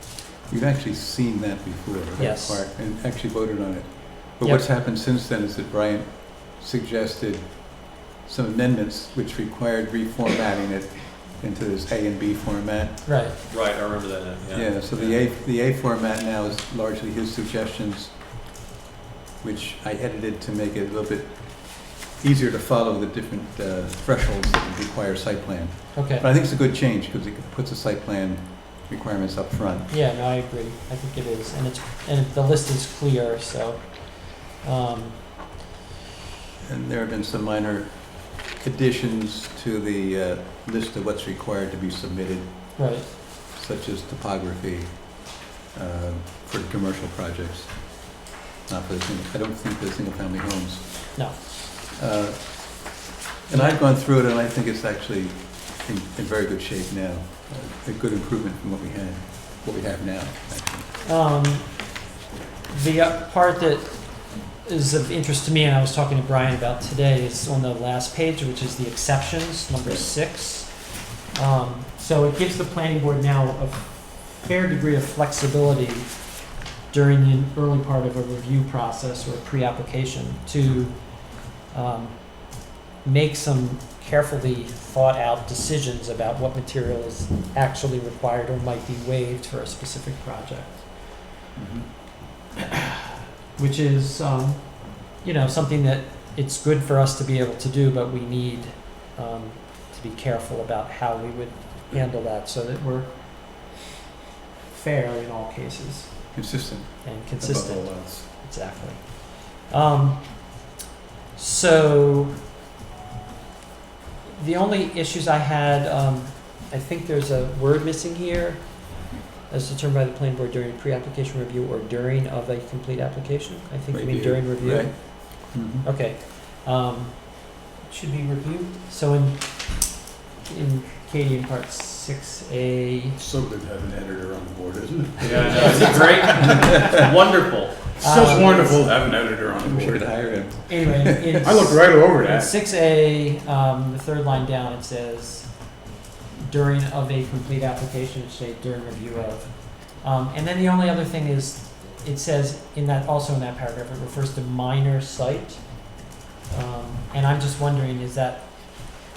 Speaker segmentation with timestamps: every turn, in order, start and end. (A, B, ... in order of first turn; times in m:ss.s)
0:00.5-0:13.0 A
0:02.2-0:02.6 B
0:04.4-0:04.7 B
0:13.0-0:13.4 B
0:13.5-0:15.2 C
0:14.5-0:18.2 A
0:19.4-0:29.9 A
0:26.0-0:26.2 B
0:29.9-0:35.6 B
0:36.6-1:00.9 A
0:42.8-0:43.1 B
0:53.5-0:53.8 B
1:01.0-1:02.1 B
1:02.7-1:31.2 B
1:09.8-1:10.1 A
1:31.6-1:31.9 A
1:33.6-1:43.8 B
1:44.7-1:46.4 B
1:46.3-1:48.2 A
1:47.0-1:50.7 B
1:51.3-1:52.4 B
1:54.3-2:13.2 B
2:03.9-2:05.8 A
2:13.2-2:16.6 D
2:15.2-2:17.9 C
2:15.4-2:16.4 B
2:18.0-2:20.4 D
2:18.0-2:18.9 B
2:19.6-2:21.5 A
2:20.7-2:38.5 B
2:21.4-2:22.5 D